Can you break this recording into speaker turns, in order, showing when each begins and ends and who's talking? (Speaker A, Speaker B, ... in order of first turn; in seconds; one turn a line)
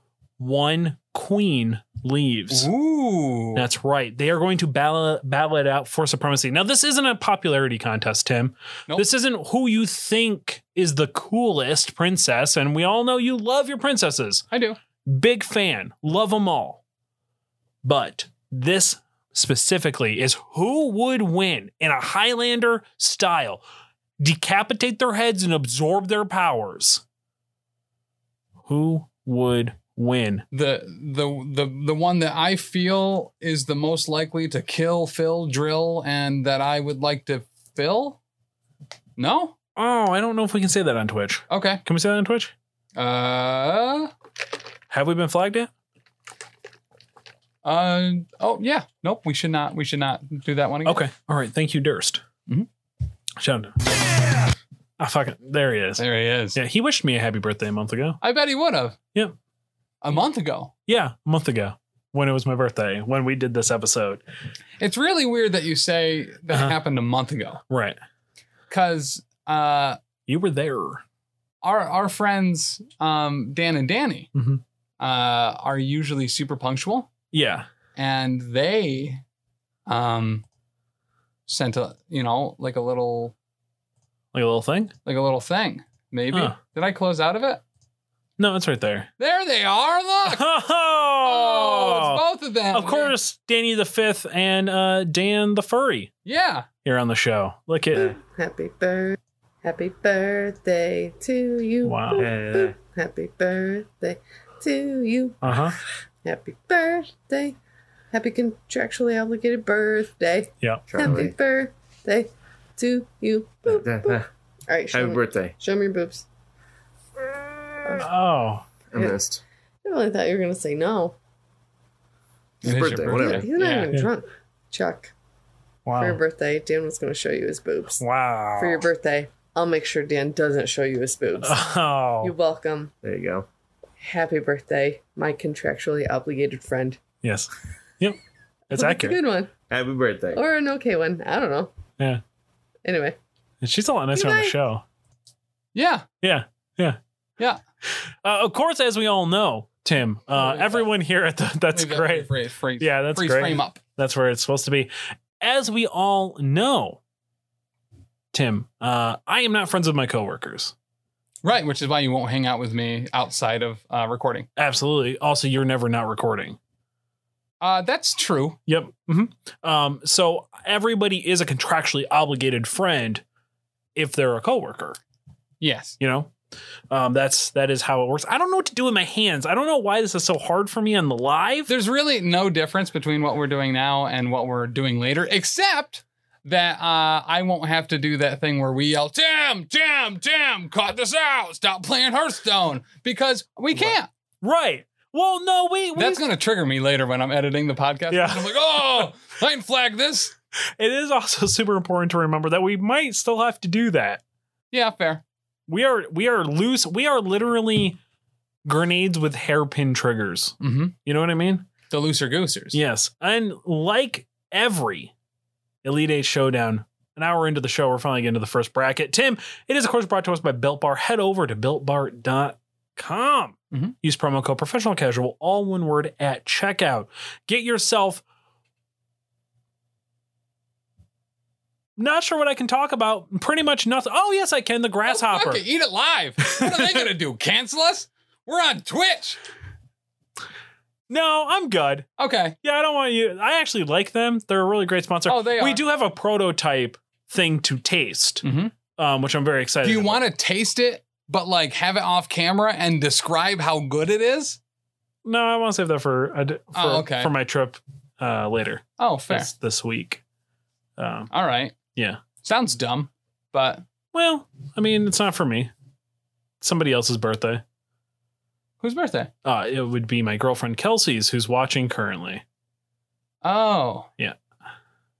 Speaker A: 0.4-2.7
Speaker B: 2.5-3.6
Speaker A: 3.5-14.4
Speaker B: 14.5-14.8
Speaker A: 15.1-16.8
Speaker A: 17.8-23.6
Speaker A: 24.2-27.0
Speaker A: 28.6-30.4
Speaker B: 30.5-38.2
Speaker B: 39.2-39.5
Speaker A: 39.8-42.5
Speaker B: 41.5-41.8
Speaker B: 43.0-44.1
Speaker A: 44.9-45.7
Speaker B: 47.6-51.0
Speaker A: 50.8-52.2
Speaker A: 53.4-53.8
Speaker A: 55.0-58.2
Speaker B: 56.0-56.6
Speaker B: 58.2-59.0
Speaker B: 60.0-60.7
Speaker A: 60.9-64.2
Speaker B: 64.8-67.6
Speaker A: 67.7-68.0
Speaker B: 68.7-70.0
Speaker A: 70.3-71.0
Speaker B: 71.6-74.3
Speaker A: 74.3-74.6
Speaker B: 75.0-77.1
Speaker A: 77.3-77.7
Speaker B: 78.0-79.2
Speaker B: 79.9-80.4
Speaker B: 81.5-83.3
Speaker A: 84.3-84.9
Speaker B: 85.0-87.6
Speaker A: 88.4-89.1
Speaker B: 89.2-90.5
Speaker A: 90.2-92.2
Speaker B: 91.2-93.1
Speaker A: 92.7-96.1
Speaker B: 96.2-96.7
Speaker A: 96.8-98.1
Speaker C: 98.0-107.5
Speaker A: 101.8-102.3
Speaker D: 102.2-102.7
Speaker A: 105.4-105.8
Speaker C: 108.1-116.2
Speaker D: 110.9-111.3
Speaker D: 113.7-114.2
Speaker D: 114.9-115.5
Speaker A: 117.9-118.6
Speaker D: 118.9-119.4
Speaker C: 119.8-121.2
Speaker B: 122.6-123.5
Speaker D: 122.6-123.5
Speaker C: 122.9-125.1
Speaker A: 123.6-124.1
Speaker A: 125.9-126.2
Speaker C: 125.9-128.0
Speaker A: 128.0-128.8
Speaker C: 128.6-131.6
Speaker A: 131.4-132.3
Speaker C: 132.2-132.9
Speaker D: 133.0-133.4
Speaker C: 134.0-137.0
Speaker A: 137.2-138.2
Speaker A: 138.7-139.2
Speaker C: 138.7-139.5
Speaker D: 139.7-140.4
Speaker C: 140.3-141.7
Speaker C: 142.8-143.2
Speaker A: 143.6-144.8
Speaker C: 144.1-144.6
Speaker B: 145.7-146.1
Speaker A: 146.2-147.0
Speaker A: 148.2-152.3
Speaker B: 150.3-150.9
Speaker B: 151.7-153.8
Speaker A: 152.8-157.0
Speaker A: 158.3-160.7
Speaker B: 161.4-164.5
Speaker A: 164.6-166.6
Speaker B: 167.6-168.6
Speaker A: 168.7-173.2
Speaker A: 173.9-175.0
Speaker B: 175.6-176.0
Speaker A: 176.0-176.3
Speaker A: 176.9-181.7
Speaker B: 181.7-194.1
Speaker A: 193.7-196.2
Speaker B: 195.9-200.3
Speaker A: 198.1-199.0
Speaker A: 200.8-204.2
Speaker B: 204.7-205.2
Speaker A: 205.7-208.0
Speaker A: 208.6-211.7
Speaker B: 210.6-210.9
Speaker B: 211.9-212.8
Speaker A: 212.7-215.1
Speaker A: 215.8-228.2
Speaker A: 232.0-235.6
Speaker B: 235.1-239.4
Speaker A: 236.5-237.0
Speaker A: 241.1-242.1
Speaker B: 242.2-242.6
Speaker A: 242.6-248.4
Speaker B: 245.3-245.8
Speaker B: 248.4-248.7
Speaker A: 248.9-250.2
Speaker B: 249.8-254.6
Speaker A: 255.2-260.2
Speaker B: 256.7-257.3
Speaker B: 259.0-259.5
Speaker A: 261.0-261.3
Speaker B: 261.3-261.8
Speaker A: 261.9-262.2
Speaker B: 262.4-263.8
Speaker A: 264.1-265.7
Speaker A: 266.6-267.6
Speaker B: 268.8-269.3
Speaker A: 269.4-272.4
Speaker B: 273.4-274.1